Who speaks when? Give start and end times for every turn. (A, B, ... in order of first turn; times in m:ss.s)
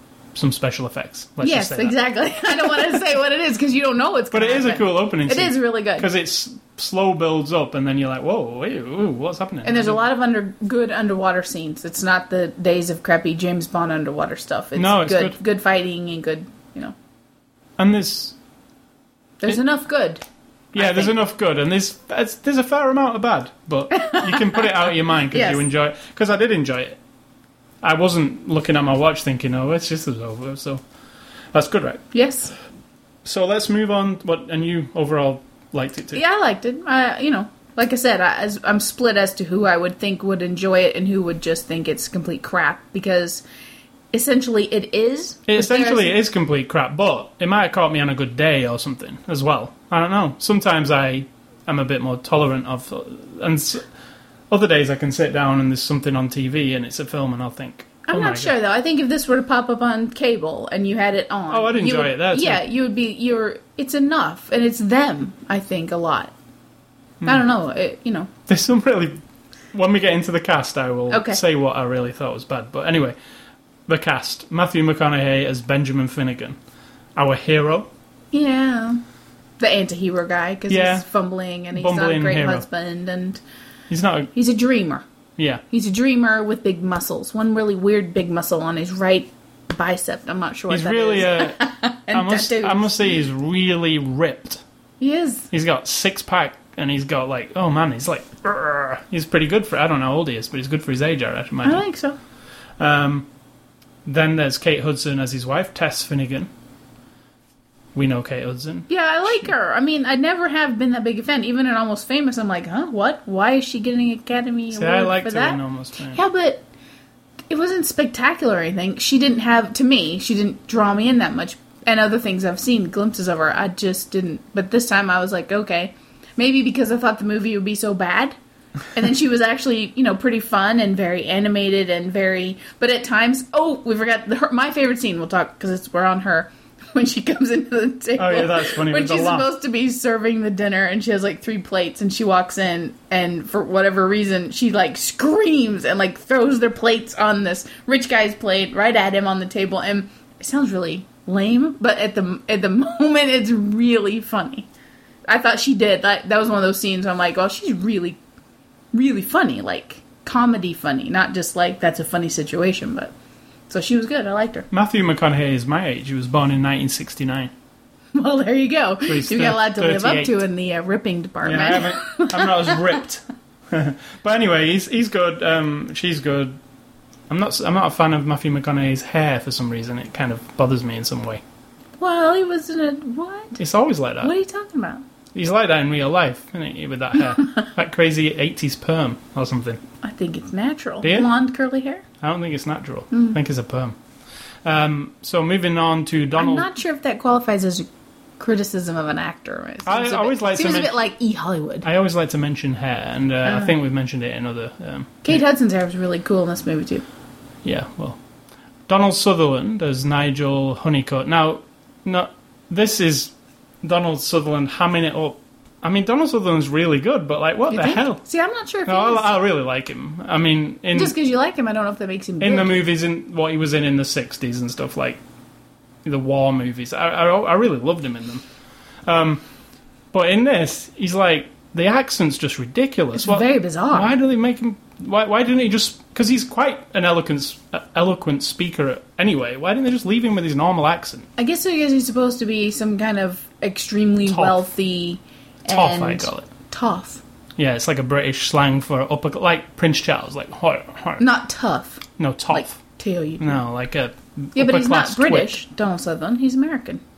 0:00.4-0:02.0 A
0:01.4-0:06.1 B
0:04.3-0:10.1 A
0:09.6-0:17.0 B
0:14.8-0:15.4 A
0:17.8-0:18.4 A
0:19.4-0:20.2 B
0:20.7-0:27.0 A
0:20.8-0:21.1 B
0:23.9-0:24.7 B
0:25.3-0:25.6 B
0:27.8-0:30.8 A
0:31.5-0:32.0 A
0:32.1-0:32.5 B
0:33.2-0:36.2 A
0:36.1-0:43.4 B
0:44.1-0:46.2 B
0:45.5-0:53.9 A
0:54.5-0:58.5 A
0:58.1-1:06.3 B
1:01.5-1:02.6 A
1:07.2-1:08.3 B
1:08.5-1:09.2 A
1:09.7-1:13.2 A
1:11.1-1:11.4 B
1:13.9-1:16.6 A
1:17.2-1:17.9 A
1:18.3-1:19.0 B
1:19.6-1:23.4 B
1:20.7-1:21.1 A
1:21.7-1:22.6 A
1:23.9-1:24.3 A
1:24.4-1:25.0 B
1:25.4-1:25.6 A
1:25.7-1:32.9 B
1:30.7-1:34.6 A
1:35.0-1:35.5 B
1:35.5-1:41.8 A
1:41.6-1:42.2 B
1:42.8-1:43.3 A
1:44.0-1:46.5 A
1:48.0-1:49.5 A
1:48.9-1:56.6 B
1:54.7-1:56.2 A
1:57.5-2:08.4 B
2:08.9-2:34.7 B
2:18.2-2:19.5 A
2:35.3-2:38.2 B
2:38.9-2:43.1 B
2:43.7-2:44.7 B
2:44.7-2:47.5 A
2:48.1-2:53.0 B
2:49.1-2:50.4 A
2:51.4-2:56.6 A
2:57.3-3:01.4 A
3:02.0-3:03.6 B
3:03.6-3:04.3 A
3:04.2-3:05.0 B
3:05.3-3:09.8 A
3:07.4-3:07.6 B
3:10.0-3:12.0 B
3:11.0-3:11.3 A
3:12.2-3:14.0 A
3:13.1-3:13.4 B
3:14.6-3:16.7 A
3:16.4-3:17.9 B
3:18.4-3:21.9 B
3:19.8-3:21.0 A
3:21.8-3:25.4 A
3:23.4-3:23.7 B
3:25.2-3:27.0 B
3:27.6-3:28.2 A
3:28.9-3:38.2 A
3:37.7-3:39.3 B
3:38.9-3:41.2 A
3:40.9-3:42.8 B
3:42.4-3:45.2 A
3:46.0-3:48.4 A
3:49.1-3:49.4 A
3:50.1-4:01.3 A
3:53.2-3:54.1 B
4:01.4-4:07.2 B
4:04.2-4:04.7 A
4:05.7-4:06.5 A
4:07.6-4:11.2 A
4:11.2-4:13.6 B
4:12.2-4:12.8 A
4:13.4-4:15.5 A
4:14.5-4:17.0 B